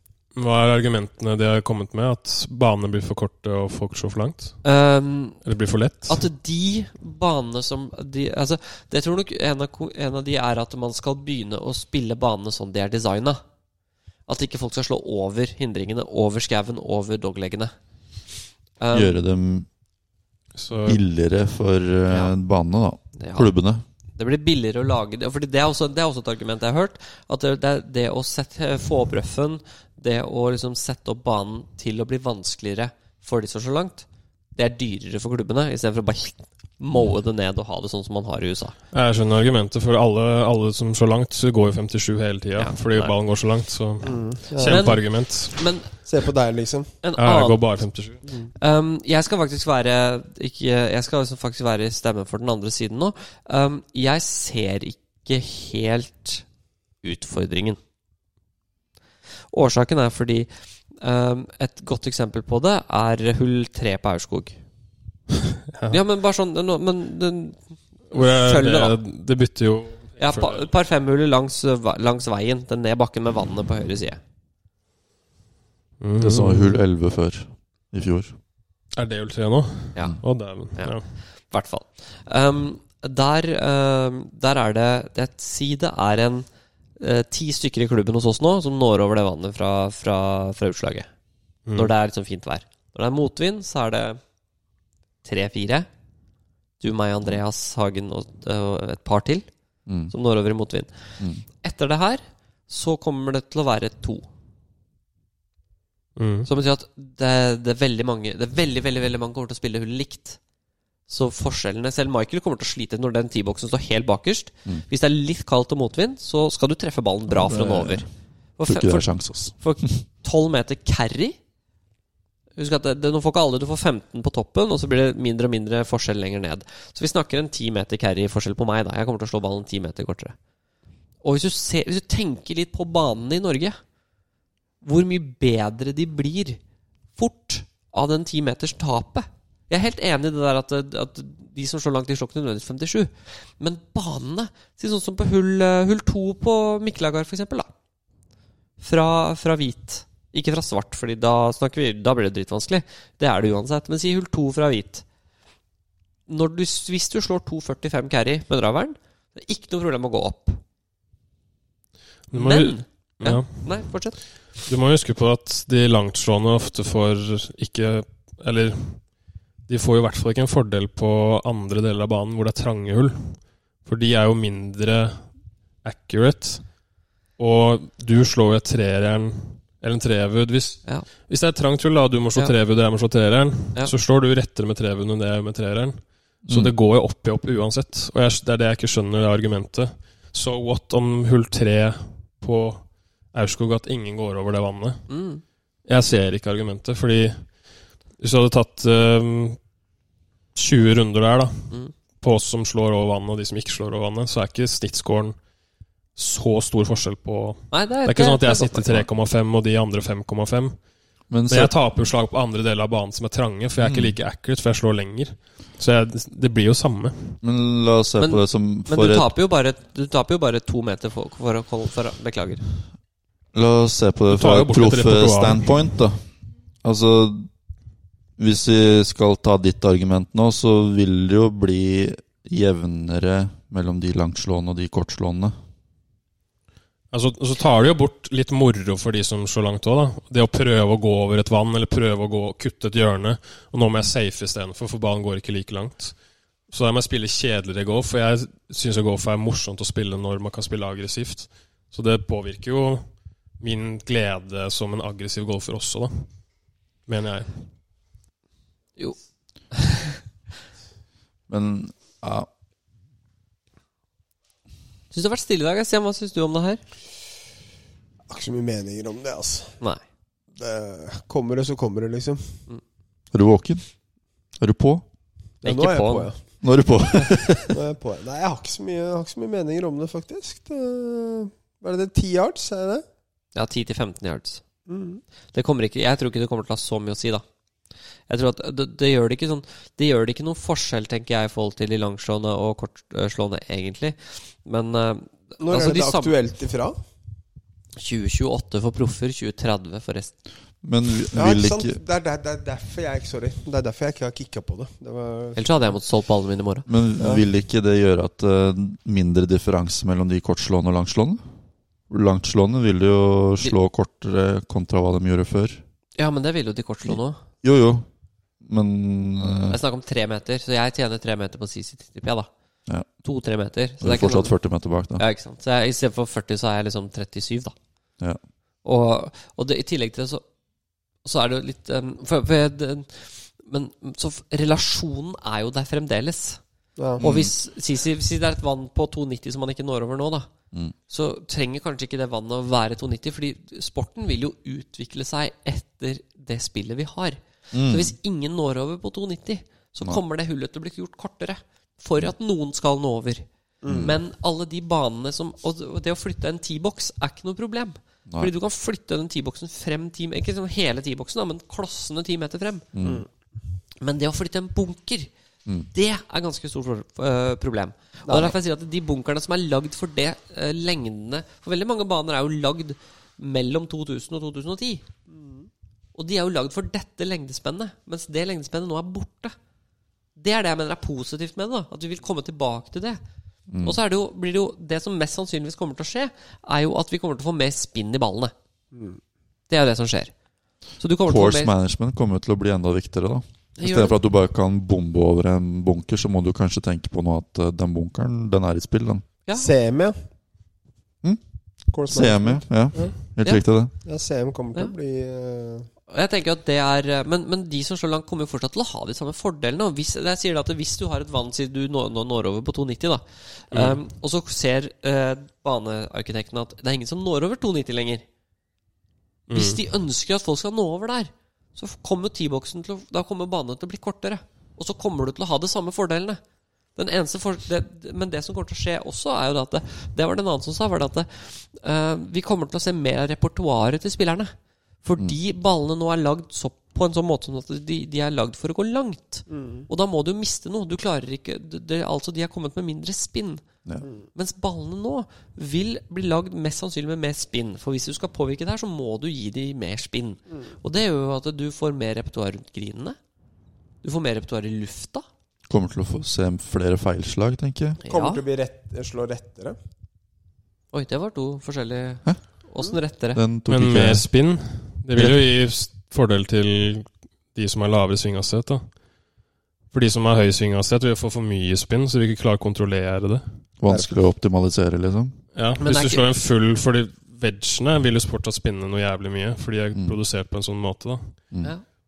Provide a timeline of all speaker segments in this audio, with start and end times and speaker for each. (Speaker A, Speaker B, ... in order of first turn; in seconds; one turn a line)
Speaker A: 0.3-4.6
Speaker B: 4.6-5.5
Speaker A: 5.4-6.2
Speaker B: 6.1-13.4
Speaker B: 14.3-19.2
Speaker C: 18.9-19.7
Speaker A: 20.5-21.0
Speaker C: 20.9-23.8
Speaker B: 22.1-22.4
Speaker B: 23.1-23.5
Speaker B: 24.1-38.8
Speaker A: 38.9-45.7
Speaker B: 42.5-43.1
Speaker D: 44.0-46.9
Speaker B: 44.6-45.9
Speaker B: 47.0-56.5
Speaker A: 47.2-48.2
Speaker B: 57.0-57.8
Speaker B: 59.5-64.6
Speaker A: 65.7-66.0
Speaker B: 65.9-69.0
Speaker A: 68.1-70.7
Speaker B: 70.2-74.2
Speaker A: 76.0-76.8
Speaker C: 76.2-78.3
Speaker A: 79.0-81.1
Speaker B: 79.9-86.5
Speaker B: 87.0-91.1
Speaker A: 91.6-91.9
Speaker B: 91.7-94.2
Speaker B: 95.2-95.9
Speaker B: 96.8-99.5
Speaker C: 99.9-100.1
Speaker B: 100.1-104.2
Speaker A: 106.2-106.5
Speaker B: 106.5-110.4
Speaker B: 111.1-121.3
Speaker C: 117.3-118.1
Speaker C: 118.6-120.0
Speaker B: 122.5-130.3
Speaker B: 131.2-133.8
Speaker B: 134.8-136.6
Speaker B: 137.2-147.7
Speaker B: 148.8-155.0
Speaker B: 156.3-160.6
Speaker A: 162.3-176.8
Speaker B: 162.3-164.4
Speaker A: 177.4-195.1
Speaker C: 186.4-186.7
Speaker B: 195.1-195.4
Speaker A: 195.8-199.6
Speaker A: 200.5-205.4
Speaker A: 206.1-217.4
Speaker B: 207.7-209.1
Speaker C: 211.3-212.0
Speaker C: 213.8-214.2
Speaker C: 217.4-219.3
Speaker B: 218.2-222.6
Speaker C: 223.5-226.3
Speaker A: 224.3-225.9
Speaker C: 226.8-227.5
Speaker C: 228.4-235.6
Speaker A: 237.1-257.6
Speaker B: 259.0-260.1
Speaker C: 261.5-262.5
Speaker B: 265.1-266.8
Speaker D: 268.3-269.8
Speaker D: 270.5-272.6
Speaker C: 273.3-273.8
Speaker C: 274.6-275.0
Speaker D: 275.6-276.5
Speaker B: 275.6-276.3
Speaker C: 276.6-277.7
Speaker D: 277.7-283.0
Speaker B: 283.5-284.6
Speaker D: 284.9-285.2
Speaker B: 285.5-287.4
Speaker B: 288.3-296.4
Speaker D: 295.6-296.9
Speaker B: 298.0-300.4
Speaker C: 300.8-302.0
Speaker D: 301.3-305.6
Speaker B: 305.5-306.9
Speaker C: 306.9-311.4
Speaker C: 312.1-315.8
Speaker B: 316.2-317.4
Speaker C: 317.1-318.1
Speaker C: 318.6-319.8
Speaker B: 319.7-322.5
Speaker B: 323.2-324.6
Speaker C: 324.0-325.2
Speaker B: 325.1-327.7
Speaker B: 328.8-330.4
Speaker B: 331.2-336.6
Speaker D: 337.0-337.2
Speaker B: 337.2-340.5
Speaker C: 337.2-337.5
Speaker B: 341.1-362.9
Speaker C: 347.7-348.1
Speaker D: 353.8-354.1
Speaker C: 353.9-354.1
Speaker C: 358.3-358.5
Speaker C: 362.9-363.2
Speaker B: 364.0-365.3
Speaker B: 365.9-375.0
Speaker D: 368.3-368.5
Speaker D: 375.3-375.7
Speaker B: 376.1-379.6
Speaker B: 380.4-383.2
Speaker C: 383.7-384.0
Speaker B: 383.8-388.5
Speaker D: 388.9-389.2
Speaker B: 389.7-390.3
Speaker B: 391.0-391.7
Speaker C: 391.3-399.2
Speaker B: 393.8-394.2
Speaker B: 399.4-399.7
Speaker D: 399.5-400.1
Speaker D: 401.9-403.1
Speaker C: 402.1-403.9
Speaker D: 404.0-405.9
Speaker B: 406.1-418.2
Speaker A: 413.7-414.0
Speaker A: 419.5-419.8
Speaker B: 419.5-426.4
Speaker B: 426.9-443.6
Speaker D: 439.5-439.9
Speaker B: 444.3-453.2
Speaker B: 454.0-455.2
Speaker C: 455.7-458.0
Speaker D: 458.0-459.8
Speaker B: 458.0-458.4
Speaker B: 460.9-463.4
Speaker C: 463.3-464.3
Speaker A: 463.7-469.0
Speaker C: 465.1-465.4
Speaker A: 469.9-473.6
Speaker C: 473.8-475.4
Speaker D: 473.9-474.1
Speaker A: 475.5-481.4
Speaker B: 475.8-476.3